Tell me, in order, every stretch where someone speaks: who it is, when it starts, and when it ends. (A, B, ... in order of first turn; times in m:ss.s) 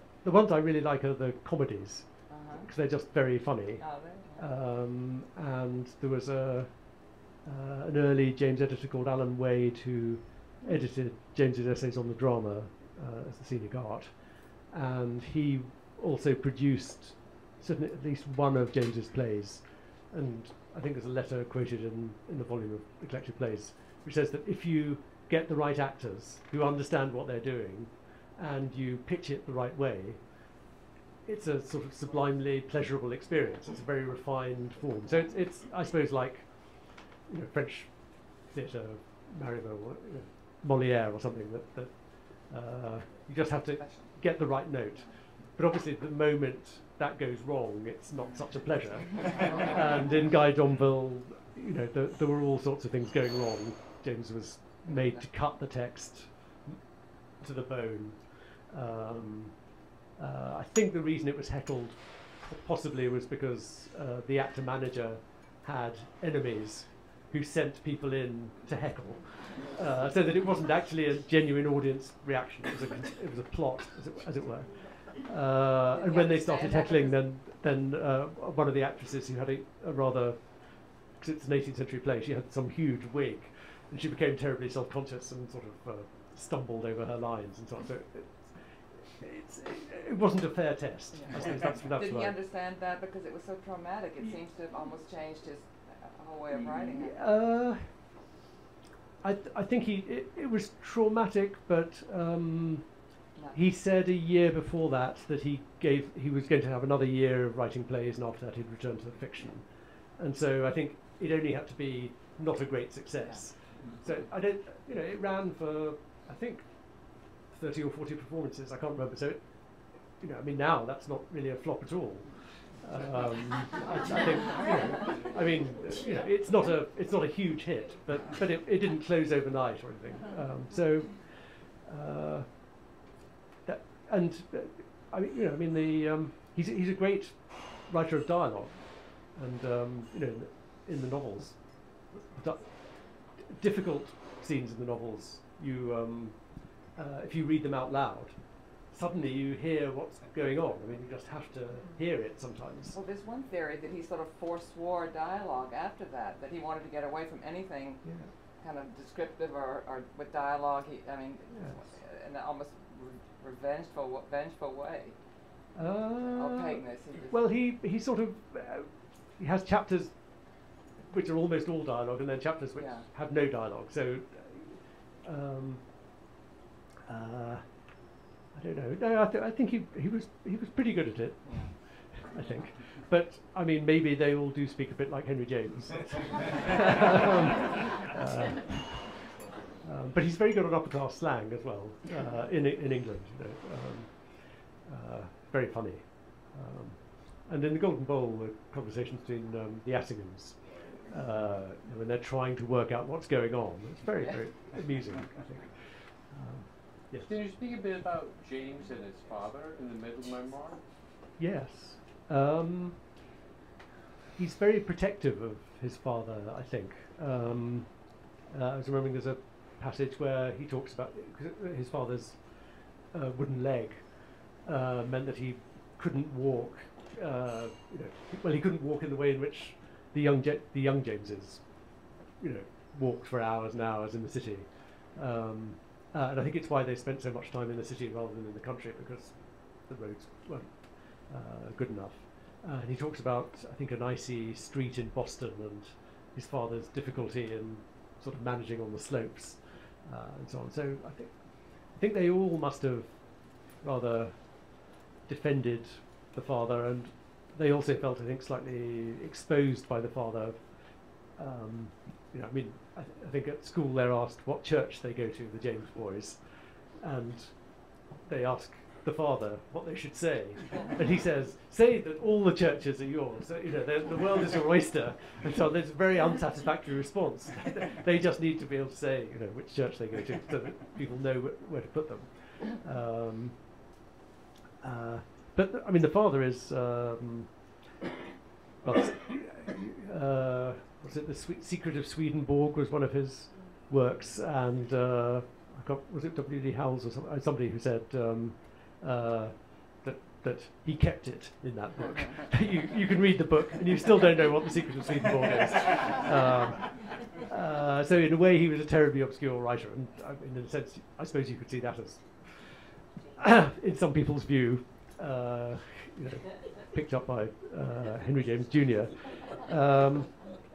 0:00.2-0:03.8 A
0:02.3-0:02.7 B
0:03.8-0:04.4 B
0:04.4-0:06.8 A
0:07.4-0:14.1 A
0:14.7-0:30.2 A
0:31.2-0:56.8 A
0:43.8-0:44.1 B
0:49.1-0:49.6 B
0:54.9-0:55.2 B
0:57.4-0:59.6 A
1:00.2-1:32.4 A
1:15.9-1:17.2 B
1:31.1-1:37.2 B
1:36.5-1:37.9 A
1:39.2-1:42.9 A
1:43.5-1:59.6 A
2:00.2-2:12.5 A
2:13.6-2:33.0 A
2:32.9-2:45.2 B
2:38.0-2:38.3 A
2:41.5-2:41.8 A
2:45.7-2:50.1 A
2:46.2-2:47.3 B
2:51.1-2:55.8 A
2:52.8-2:53.0 B
2:57.1-2:57.7 A
2:58.5-3:27.3 A
3:27.2-3:30.8 C
3:31.4-3:33.0 A
3:34.4-3:37.9 A
3:38.5-3:42.4 A
3:43.1-3:44.1 A
3:44.6-3:51.7 A
3:52.4-4:13.2 A
4:13.7-4:14.7 A
4:15.2-4:20.6 A
4:21.3-4:26.4 A
4:27.0-4:43.6 A
4:44.8-4:47.5 A
4:48.8-5:12.8 A
5:13.3-5:20.4 A